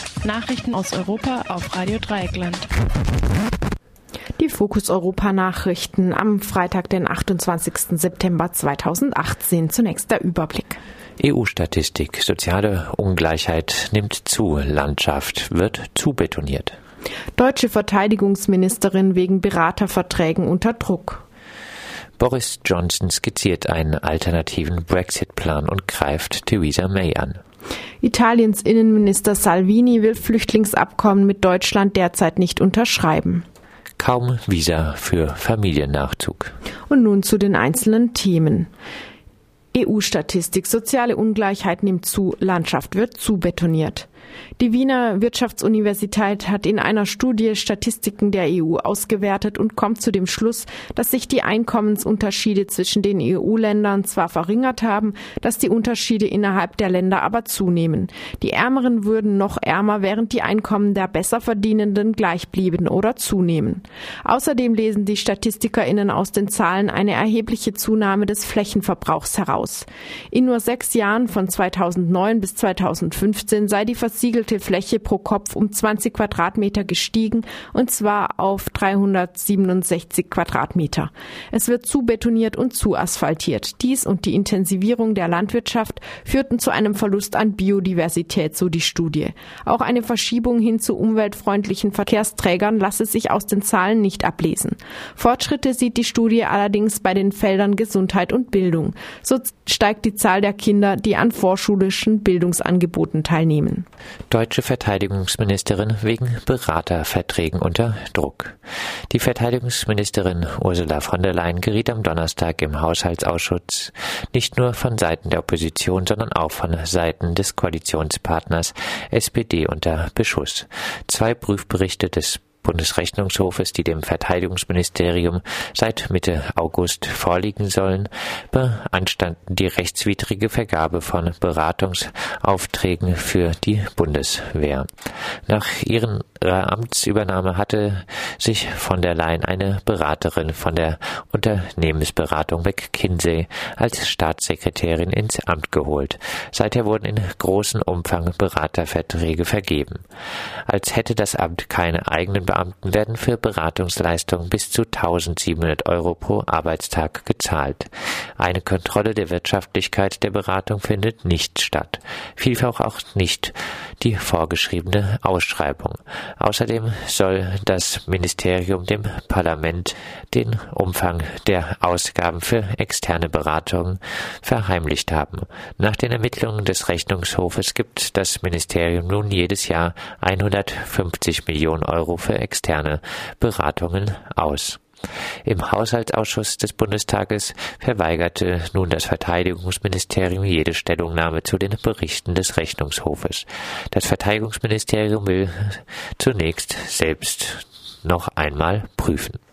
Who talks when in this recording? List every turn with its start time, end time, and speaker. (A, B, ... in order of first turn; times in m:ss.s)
0:00.2-0:02.6 A
0:04.4-0:10.8 B
0:11.2-0:16.8 C
0:17.4-0:21.2 B
0:22.2-0:27.4 C
0:28.0-0:33.4 B
0:34.0-0:36.5 C
0:36.9-0:38.7 B
0:39.7-1:43.9 B
1:44.3-1:48.6 C
1:49.1-2:14.9 C
2:15.5-2:30.0 C
2:30.7-3:04.8 C
3:05.4-3:19.4 C